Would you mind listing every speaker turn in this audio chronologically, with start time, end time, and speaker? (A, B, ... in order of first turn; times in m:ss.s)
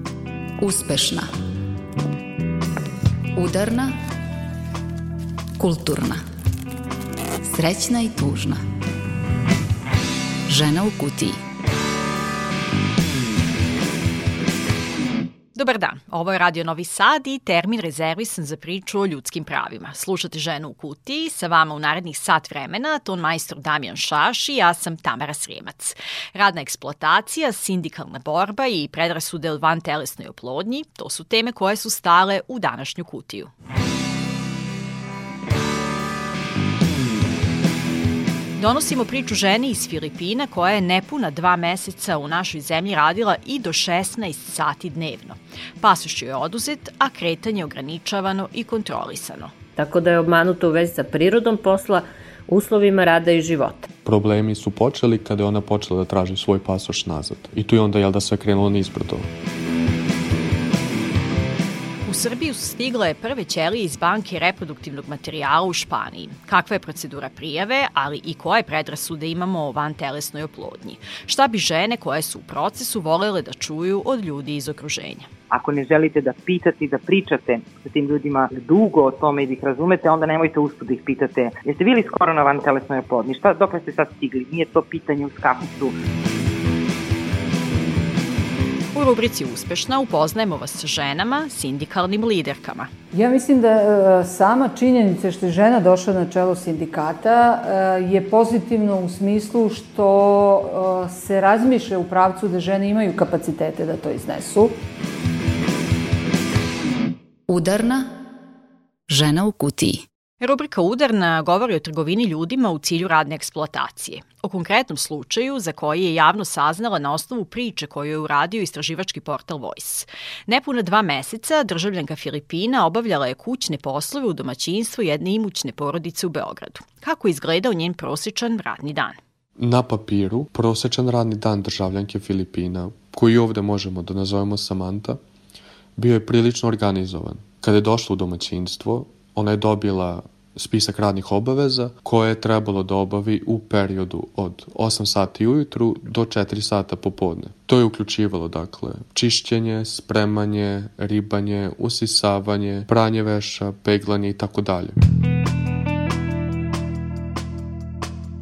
0:00.6-0:01.3 A
0:03.4-0:04.0 A
0:05.6-0:06.2 A
0:07.5-0:08.6 A
0:10.5-0:11.4 A
0:15.6-0:33.5 B
0:38.6-0:49.5 B
0:49.8-0:53.9 C
0:54.0-0:59.3 D
1:02.1-1:15.3 B
1:15.5-1:26.0 E
1:28.9-1:32.9 B
1:33.1-1:44.8 F
1:47.5-1:48.1 A
1:49.1-1:50.0 A
1:50.4-2:09.2 B
2:09.6-2:15.2 D
2:16.0-2:35.0 D